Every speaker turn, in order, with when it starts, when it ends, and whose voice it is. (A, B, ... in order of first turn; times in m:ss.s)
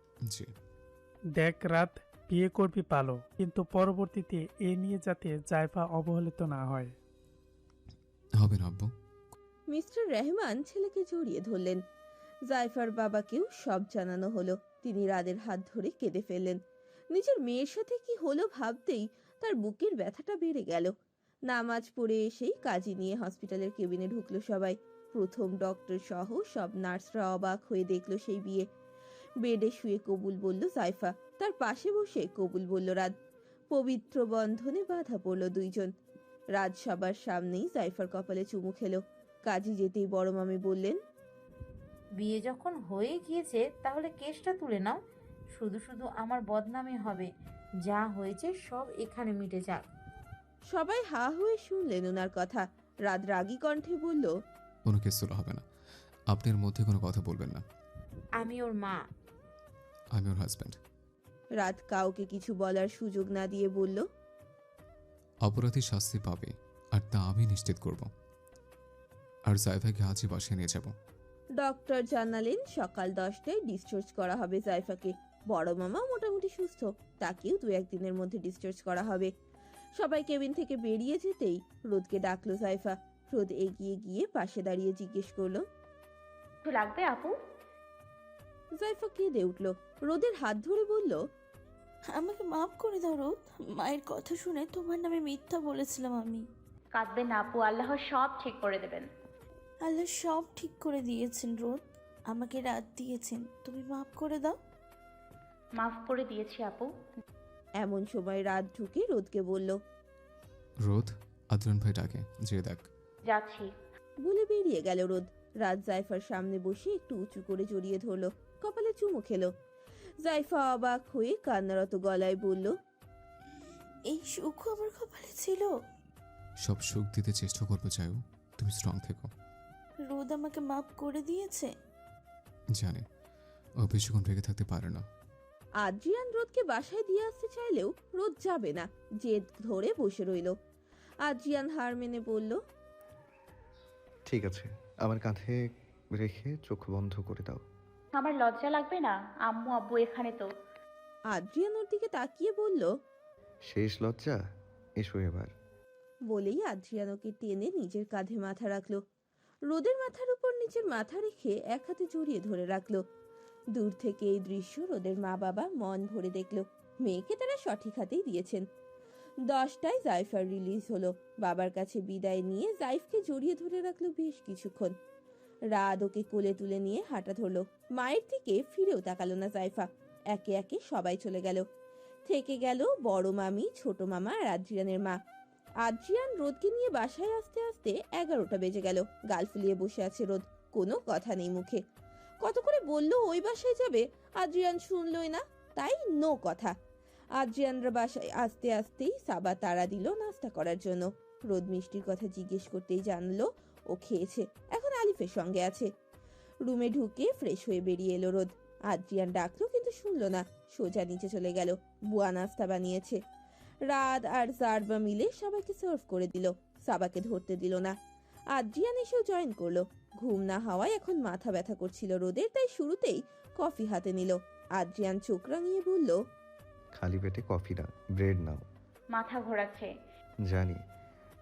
0:00.3-0:00.5 A
0:01.4-0:07.0 B
0:08.4-0:08.9 A
0:09.7-0:11.8 C
0:12.5-0:16.6 C
0:17.1-0:20.9 C
0:21.5-0:28.7 C
0:29.4-0:33.1 C
0:33.7-0:35.9 C
0:36.6-0:41.0 C
0:42.2-0:45.0 D
0:45.5-0:47.3 D
0:47.8-0:49.9 D
0:50.7-0:54.3 C
0:54.9-0:55.6 A
0:56.3-0:57.6 A
0:58.4-0:59.0 D
1:00.2-1:00.8 A
1:01.6-1:04.1 C
1:05.4-1:08.1 A
1:09.5-1:10.9 A
1:11.6-1:19.3 C
1:20.0-1:25.6 C
1:26.6-1:27.4 E
1:28.8-1:31.2 C
1:32.1-1:36.4 F
1:37.0-1:39.1 E
1:39.8-1:44.6 F
1:45.8-1:46.9 E
1:47.8-1:49.8 C
1:50.8-1:52.9 A
1:53.3-1:53.7 E
1:54.2-1:59.5 C
2:00.2-2:02.8 C
2:04.1-2:05.7 F
2:06.6-2:09.3 A
2:10.0-2:11.7 F
2:12.8-2:13.1 A
2:13.8-2:15.1 A
2:15.8-2:20.6 C
2:21.3-2:22.6 C
2:24.3-2:27.6 G
2:28.2-2:30.5 E
2:31.3-2:32.9 C
2:33.7-2:34.4 G
2:35.0-2:35.5 G
2:36.3-2:39.0 C
2:39.7-2:43.0 C
2:43.7-2:48.7 C
2:49.5-2:55.0 C
2:55.7-3:01.6 C
3:02.3-3:05.2 C
3:05.8-3:11.8 C
3:12.4-3:16.7 C
3:17.4-3:25.9 C
3:26.6-3:33.2 C
3:33.9-3:37.9 C
3:38.5-3:46.2 C
3:47.0-3:48.6 G
3:49.1-3:49.9 E
3:50.5-3:50.8 G